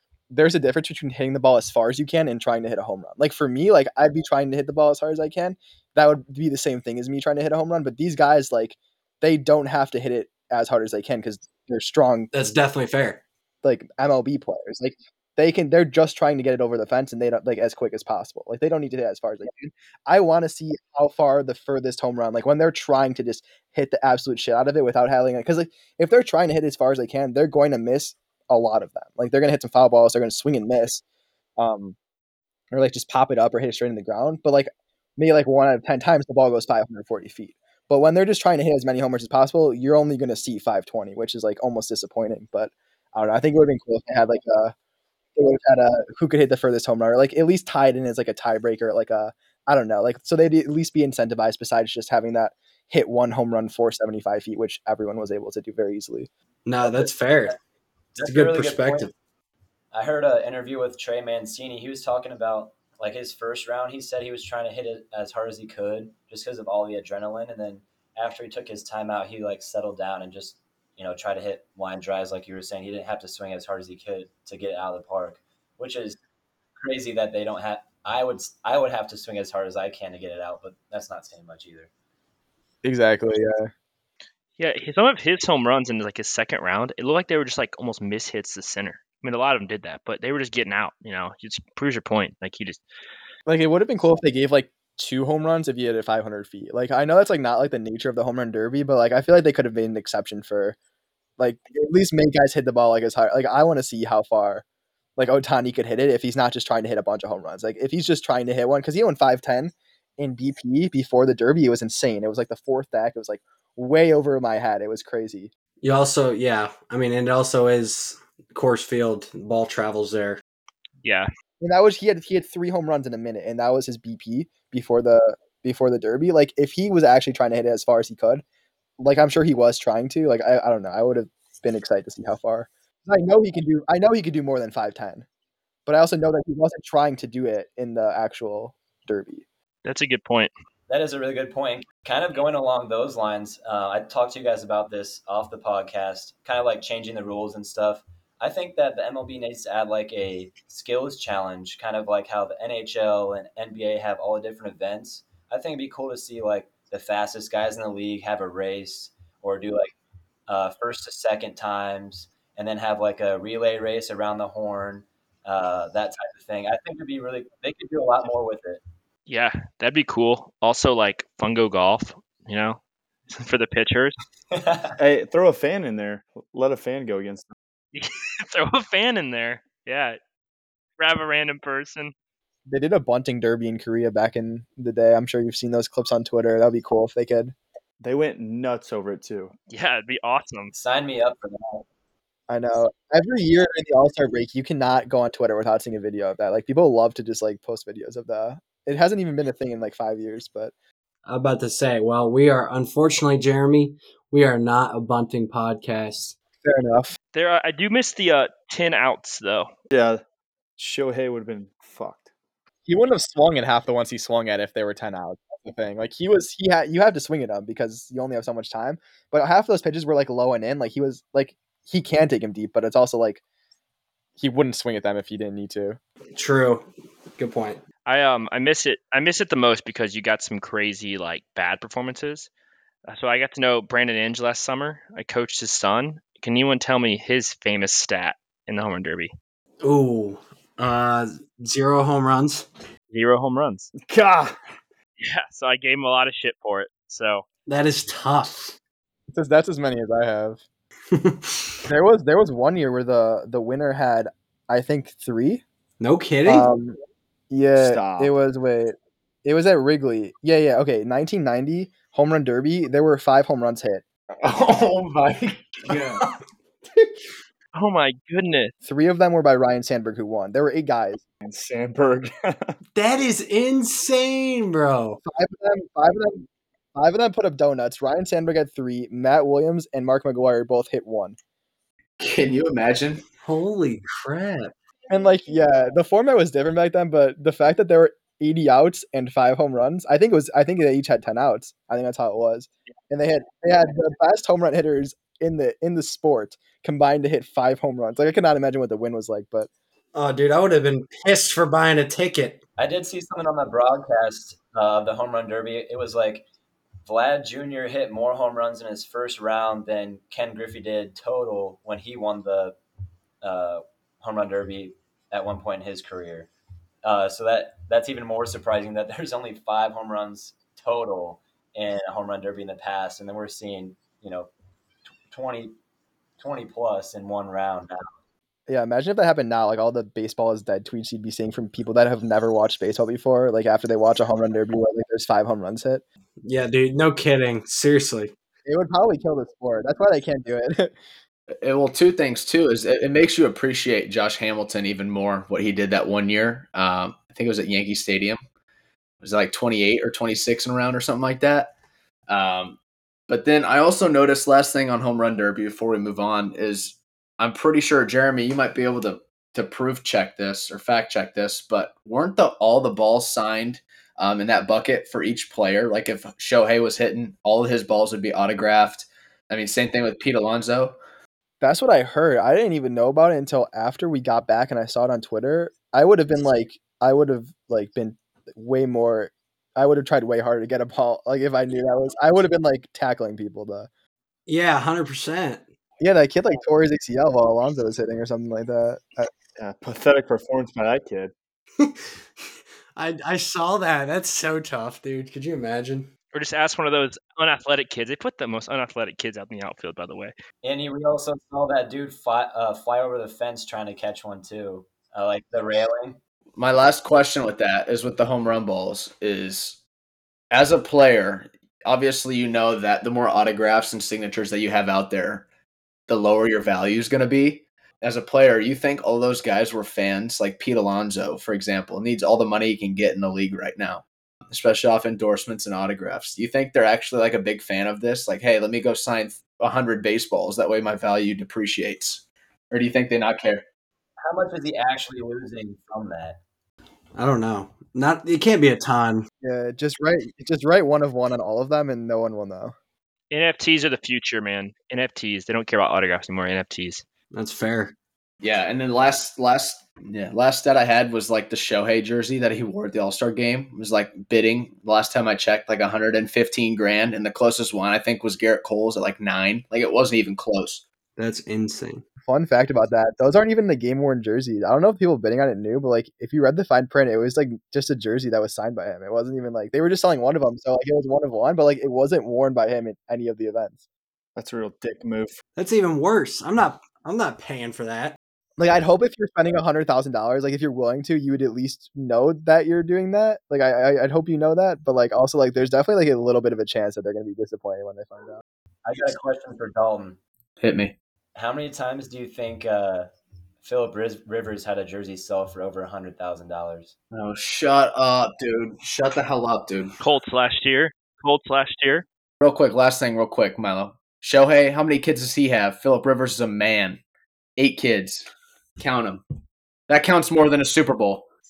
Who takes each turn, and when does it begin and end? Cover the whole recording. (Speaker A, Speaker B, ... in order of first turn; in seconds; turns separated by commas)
Speaker A: 0.3-12.3, Speaker B: 12.3-13.2, Speaker A: 13.6-31.0, Speaker A: 31.6-31.9, Speaker A: 32.7-44.7, Speaker A: 45.4-56.3, Speaker B: 56.6-57.5, Speaker C: 58.1-59.1, Speaker B: 58.2-59.1, Speaker C: 59.9-76.2, Speaker C: 76.8-81.9, Speaker A: 82.8-83.7, Speaker D: 84.6-92.8, Speaker A: 93.5-100.8, Speaker A: 101.4-104.6, Speaker A: 105.2-115.5, Speaker B: 115.8-120.4, Speaker A: 121.6-128.4, Speaker A: 129.0-135.2, Speaker A: 135.8-139.4, Speaker D: 139.8-140.5, Speaker C: 140.9-159.9, Speaker C: 160.5-168.8, Speaker D: 169.3-172.8, Speaker D: 173.3-174.2, Speaker C: 174.5-174.9, Speaker E: 175.0-177.5, Speaker D: 177.9-180.2, Speaker D: 181.0-182.1, Speaker A: 182.7-187.5, Speaker E: 188.0-189.5, Speaker D: 189.7-190.7, Speaker C: 190.7-191.8, Speaker A: 192.5-200.7, Speaker B: 201.2-206.4, Speaker A: 206.6-207.2, Speaker D: 207.3-209.7, Speaker E: 209.9-210.2, Speaker E: 210.8-212.3, Speaker A: 212.9-223.4, Speaker A: 224.4-226.0, Speaker B: 226.3-227.8, Speaker D: 228.1-232.5, Speaker D: 233.1-239.3, Speaker B: 239.8-242.7, Speaker D: 243.1-243.9, Speaker E: 244.0-244.5, Speaker D: 245.2-247.4, Speaker B: 247.7-248.8, Speaker A: 249.3-250.6, Speaker B: 251.1-251.8, Speaker A: 251.8-255.6, Speaker B: 256.0-256.7, Speaker A: 256.4-257.0, Speaker A: 257.5-264.0, Speaker E: 257.8-258.3, Speaker E: 264.7-266.2, Speaker D: 267.7-268.7, Speaker A: 268.8-271.2, Speaker E: 271.4-272.7, Speaker B: 272.9-275.2, Speaker A: 275.2-281.4, Speaker F: 282.2-283.2, Speaker B: 283.4-284.7, Speaker A: 285.1-299.7, Speaker B: 300.1-302.6, Speaker C: 302.8-306.4, Speaker C: 307.1-312.8, Speaker C: 313.4-316.5, Speaker C: 317.0-324.5, Speaker C: 325.3-325.8, Speaker C: 326.4-328.1, Speaker A: 328.7-336.0, Speaker B: 336.4-338.3, Speaker A: 338.6-340.9, Speaker F: 341.6-348.4, Speaker F: 349.2-351.7, Speaker F: 352.3-352.8, Speaker F: 353.3-371.0, Speaker A: 371.6-383.9, Speaker B: 384.5-385.6, Speaker A: 386.0-389.3, Speaker E: 389.6-391.3, Speaker B: 391.8-392.4, Speaker B: 392.9-396.1, Speaker D: 396.3-400.3, Speaker C: 400.6-406.2, Speaker F: 406.6-409.8, Speaker F: 410.5-415.4, Speaker F: 416.1-433.6, Speaker C: 434.2-436.4, Speaker B: 437.1-439.3, Speaker A: 439.4-442.7, Speaker D: 443.3-447.1, Speaker B: 447.3-447.9, Speaker F: 448.4-460.8, Speaker B: 461.2-462.0, Speaker A: 462.2-473.8, Speaker E: 474.4-475.4, Speaker B: 475.6-478.2, Speaker A: 478.6-488.4, Speaker C: 488.9-490.2, Speaker F: 490.6-490.9, Speaker C: 491.4-493.1, Speaker C: 493.6-496.9, Speaker F: 497.1-499.9, Speaker D: 500.0-502.1, Speaker F: 502.4-507.0, Speaker F: 507.6-509.2, Speaker F: 509.9-511.3